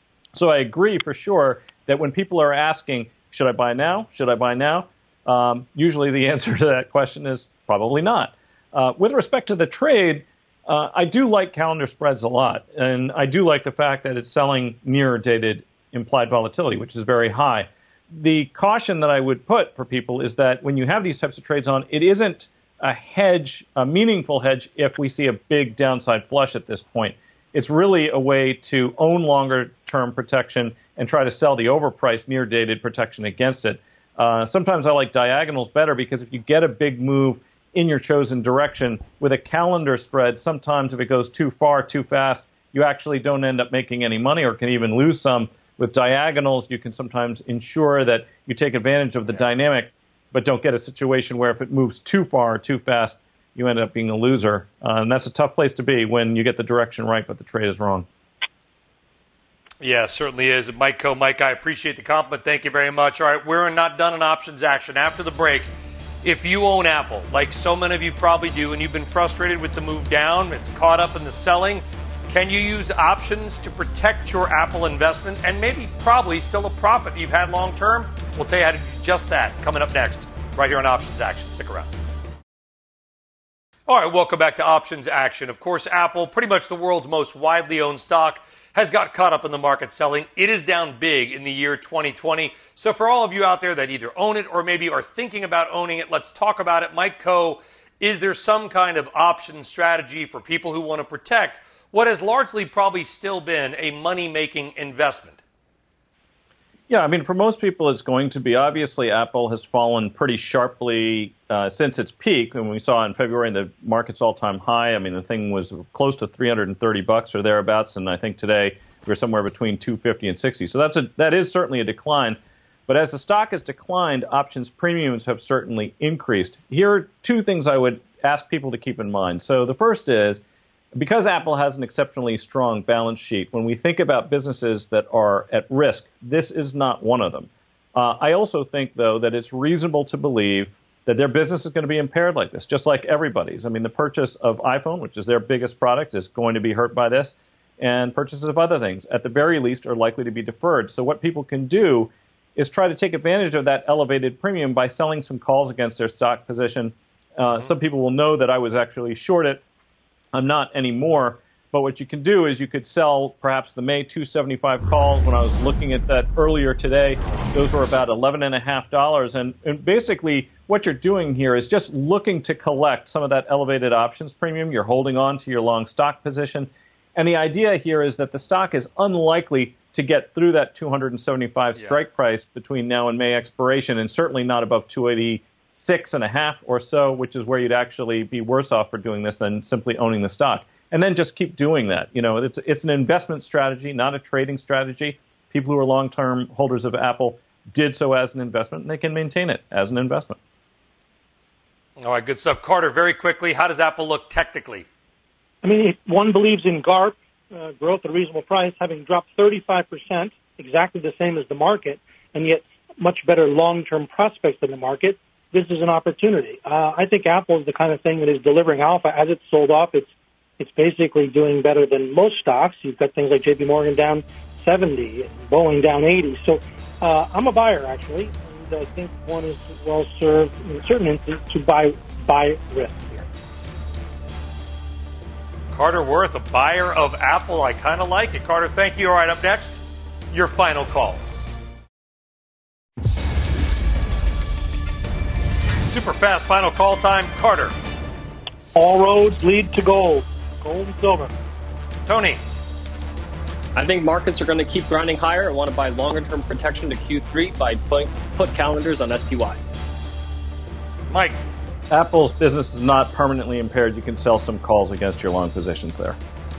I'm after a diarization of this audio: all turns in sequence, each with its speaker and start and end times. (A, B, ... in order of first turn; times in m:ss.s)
0:00.4-0:58.1 A
0:59.8-1:05.7 B
1:06.2-1:21.9 B
1:23.9-1:45.4 B
1:46.9-2:10.4 A
2:11.0-2:39.6 A
2:40.3-3:20.4 A
3:22.0-3:24.9 B
3:25.6-3:53.3 C
3:55.7-4:01.5 B
4:05.8-4:07.7 B
4:08.8-4:11.3 C
4:12.0-4:12.4 B
4:13.8-4:19.6 D
4:21.1-4:21.4 B
4:21.9-4:26.2 A